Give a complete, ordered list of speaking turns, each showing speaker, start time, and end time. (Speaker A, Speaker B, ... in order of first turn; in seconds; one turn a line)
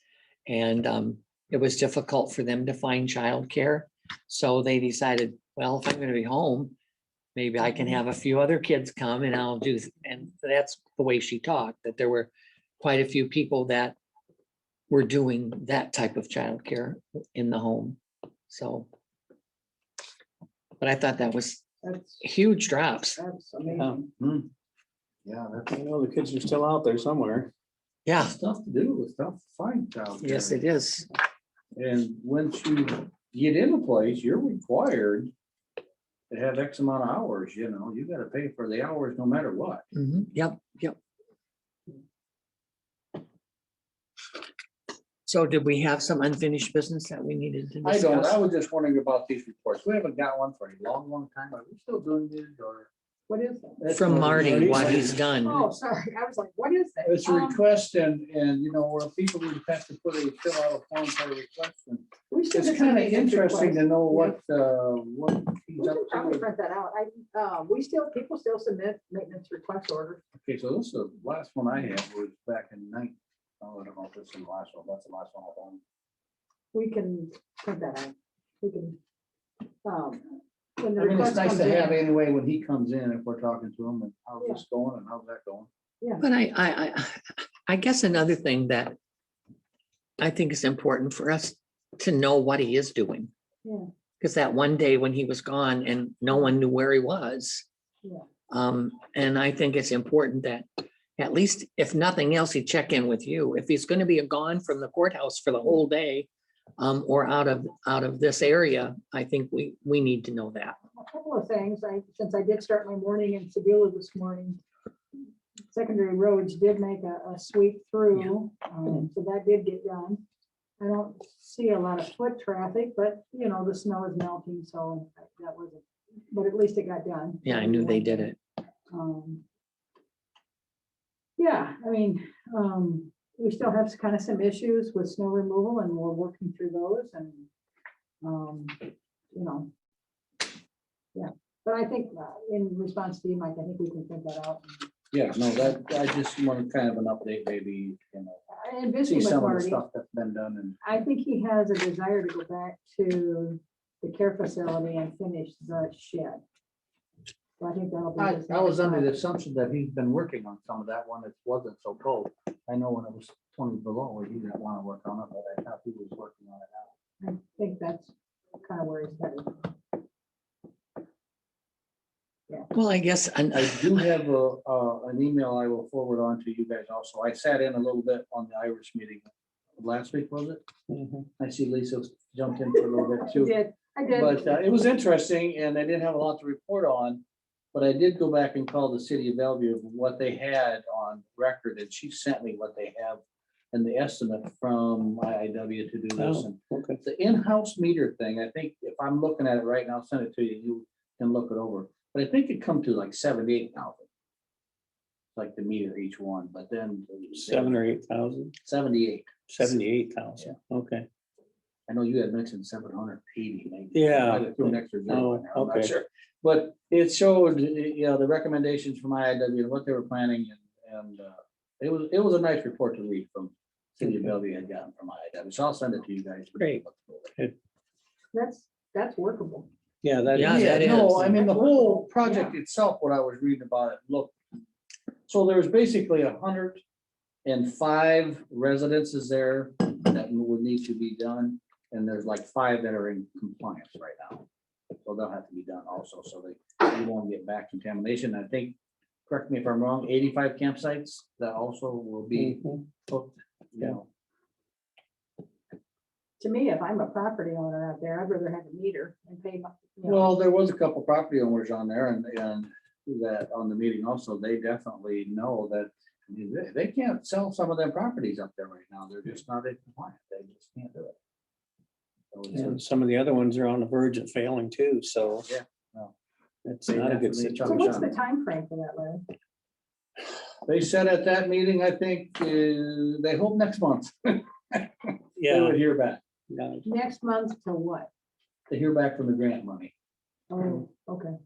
Speaker A: 0.5-6.7
Speaker A: 7.3-13.9
Speaker A: 14.9-18.9
Speaker A: 20.8-21.6
Speaker B: 21.8-22.2
Speaker A: 22.2-23.2
Speaker B: 23.2-24.1
Speaker C: 23.7-24.0
Speaker D: 24.2-24.5
Speaker D: 25.2-25.8
Speaker C: 25.7-27.5
Speaker A: 28.1-28.3
Speaker D: 28.2-30.6
Speaker A: 30.2-31.1
Speaker D: 31.7-35.3
Speaker D: 36.3-39.8
Speaker A: 39.9-41.0
Speaker A: 45.2-48.4
Speaker D: 47.8-52.9
Speaker B: 53.3-53.8
Speaker D: 53.8-55.2
Speaker A: 53.9-55.6
Speaker C: 54.4-54.9
Speaker B: 55.4-57.6
Speaker D: 57.0-66.4
Speaker B: 62.3-64.4
Speaker B: 65.8-70.2
Speaker D: 70.4-75.8
Speaker B: 76.7-79.0
Speaker B: 79.8-82.0
Speaker D: 81.0-85.7
Speaker A: 86.2-88.9
Speaker A: 90.2-93.3
Speaker A: 94.2-97.7
Speaker A: 98.5-100.7
Speaker A: 101.2-110.8
Speaker B: 111.0-114.6
Speaker B: 115.7-120.2
Speaker B: 120.8-128.3
Speaker A: 127.4-128.4
Speaker B: 128.9-129.4
Speaker B: 131.4-137.5
Speaker B: 138.2-139.7
Speaker B: 141.1-144.9
Speaker D: 145.1-148.4
Speaker B: 148.5-149.8
Speaker D: 149.0-150.8
Speaker B: 150.8-156.4
Speaker B: 157.6-159.1
Speaker D: 158.2-166.9
Speaker B: 167.2-169.7
Speaker A: 172.7-174.1
Speaker D: 173.5-180.6
Speaker C: 180.9-181.3
Speaker D: 181.4-183.5
Speaker B: 182.7-184.7
Speaker D: 184.1-187.2
Speaker D: 187.7-193.2
Speaker D: 193.7-204.1
Speaker C: 196.2-197.0
Speaker D: 205.3-207.8
Speaker C: 207.3-208.5
Speaker D: 208.6-209.7
Speaker C: 209.5-211.1
Speaker D: 211.9-227.3
Speaker C: 213.9-215.9
Speaker B: 228.3-229.7
Speaker C: 230.0-231.3
Speaker A: 230.3-231.2
Speaker D: 230.4-234.3
Speaker B: 231.2-232.5
Speaker D: 235.3-236.8
Speaker D: 237.4-244.4
Speaker D: 245.0-248.8
Speaker D: 249.3-254.1
Speaker C: 252.3-252.9
Speaker B: 256.4-260.3
Speaker D: 260.0-271.1
Speaker D: 272.3-272.8
Speaker C: 272.5-275.5
Speaker D: 275.4-276.1
Speaker C: 276.6-278.0
Speaker D: 276.9-278.1
Speaker B: 277.6-279.2
Speaker D: 280.6-286.2
Speaker C: 285.4-285.8
Speaker C: 286.5-286.9
Speaker B: 286.8-288.1
Speaker D: 288.7-289.9
Speaker B: 290.5-291.3